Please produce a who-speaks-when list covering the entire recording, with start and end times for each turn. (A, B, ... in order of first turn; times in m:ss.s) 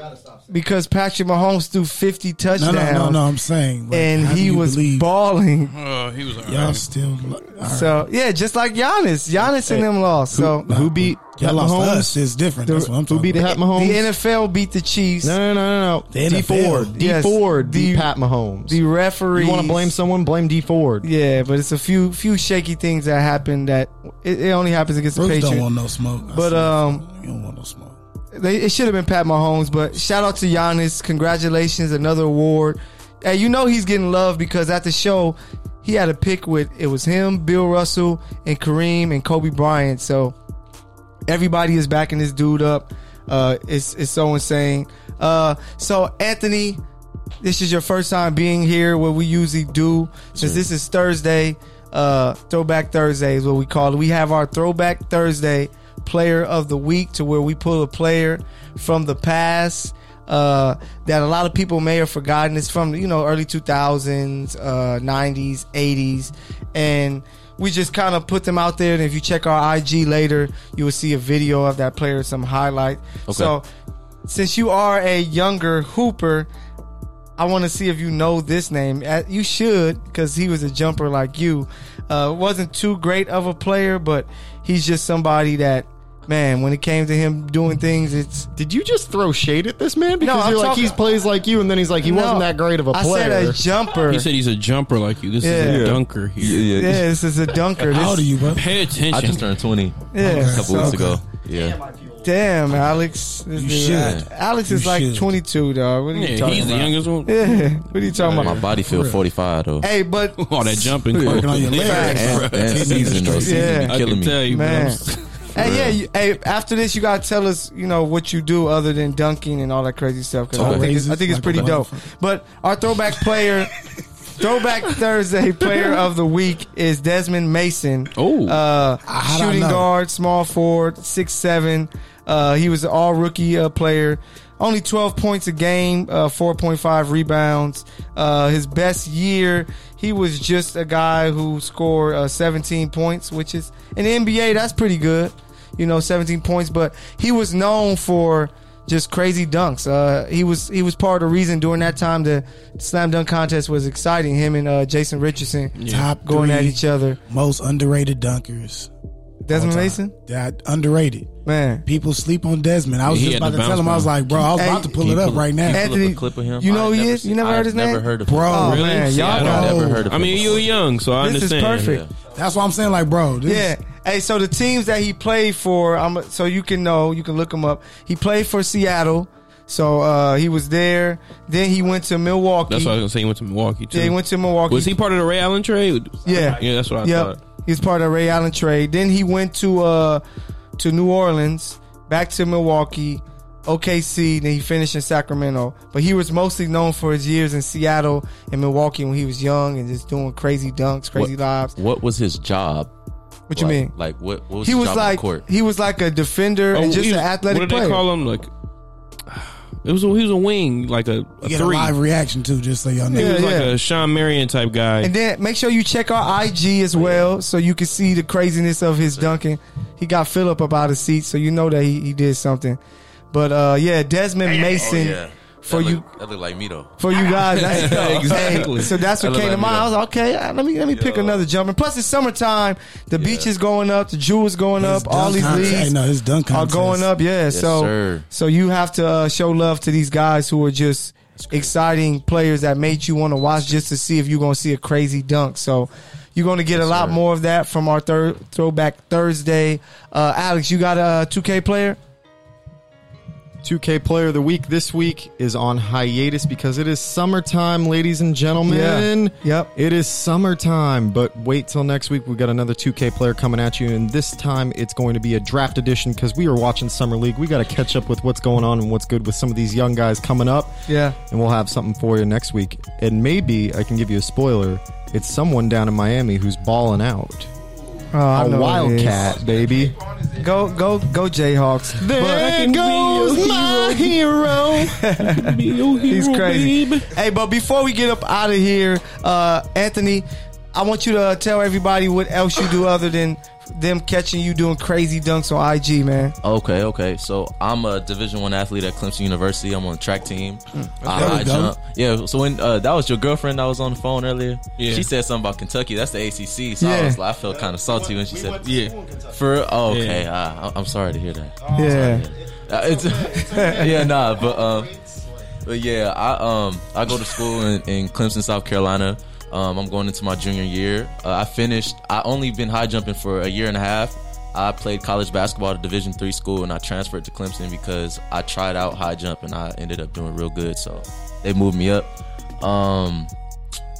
0:00.5-0:03.2 A
0:02.6-0:05.0 B
0:03.9-0:05.7 A
0:05.7-0:06.8 C
0:06.4-0:08.0 B
0:07.5-0:10.7 A
0:10.3-0:13.4 B
0:10.4-0:12.2 D
0:12.6-0:15.4 A
0:13.0-0:14.1 D
0:15.2-0:18.8 D
0:16.1-0:16.9 B
0:16.9-0:18.1 A
0:18.7-0:19.9 A
0:19.3-0:21.1 D
0:21.0-0:25.7 A
0:25.1-0:28.0 B
0:26.3-0:27.0 A
0:28.3-0:40.4 A
0:41.3-0:46.8 A
0:47.4-1:13.6 A
0:50.3-0:50.6 E
1:13.3-1:13.5 E
1:14.2-1:16.5 A
1:17.4-1:28.5 A
1:28.6-1:33.6 D
1:30.2-1:30.9 A
1:32.0-1:34.3 A
1:34.1-1:36.8 C
1:35.4-1:35.9 A
1:35.7-1:37.0 E
1:36.7-1:38.3 A
1:37.8-1:38.7 B
1:38.5-1:39.5 C
1:39.1-1:41.8 E
1:40.1-1:41.0 A
1:40.2-1:41.2 B
1:42.2-1:48.6 A
1:43.5-1:45.4 B
1:43.9-1:44.3 E
1:46.1-1:48.5 C
1:48.4-1:49.9 E
1:48.8-1:49.2 B
1:49.8-1:50.9 A
1:50.4-1:55.5 C
1:51.1-1:53.8 B
1:51.2-1:54.4 E
1:51.8-1:52.4 A
1:53.4-1:55.0 A
1:55.5-2:03.7 A
1:55.6-1:56.0 E
2:00.5-2:02.1 B
2:00.6-2:00.9 E
2:04.4-2:37.2 A
2:08.1-2:08.6 C
2:09.1-2:09.9 B
2:35.8-2:36.1 C
2:35.8-2:38.9 B
2:39.4-2:40.1 A
2:39.5-2:41.3 B
2:41.4-2:41.8 A
2:41.8-2:45.8 B
2:43.0-2:45.4 C
2:44.6-2:45.0 A
2:45.2-2:50.7 E
2:45.7-2:49.8 A
2:48.2-2:50.1 B
2:48.5-2:52.0 C
2:51.2-2:52.0 A
2:51.9-2:52.1 E
2:52.3-2:53.7 B
2:53.4-3:02.9 A
3:02.7-3:07.4 C
3:03.9-3:04.9 A
3:06.2-3:10.2 A
3:10.8-3:21.7 A
3:21.1-3:22.9 E
3:23.5-3:23.9 A
3:23.5-3:25.4 E
3:24.6-3:28.0 A
3:26.7-3:28.5 C
3:29.3-3:32.0 C
3:31.4-3:33.4 B
3:33.1-3:33.7 A
3:33.1-3:35.1 C
3:35.0-3:42.8 A
3:37.0-3:37.2 E
3:43.3-3:46.0 A
3:44.5-3:46.9 E
3:47.0-3:55.9 A
3:47.3-3:49.8 C
3:49.5-3:49.8 E
3:50.9-3:51.4 E
3:53.2-3:53.5 E
3:54.8-3:57.1 B
3:56.5-4:12.0 A
3:57.5-3:58.2 E
4:01.4-4:01.7 E
4:06.7-4:07.2 E
4:13.6-4:37.5 D
4:18.6-4:19.7 A
4:30.9-4:31.2 A
4:38.1-4:39.2 A
4:38.3-4:40.0 D
4:40.4-4:42.5 A
4:42.0-4:45.0 D
4:42.2-4:47.1 C
4:45.0-4:45.5 A
4:46.1-4:56.3 A
4:56.4-5:14.9 E
5:01.0-5:01.5 C
5:01.0-5:01.8 B
5:04.8-5:05.1 C
5:06.8-5:07.2 A
5:07.7-5:09.4 D
5:09.9-5:10.3 C
5:11.7-5:12.3 A
5:12.7-5:15.4 D
5:13.2-5:14.1 A
5:15.6-5:33.3 E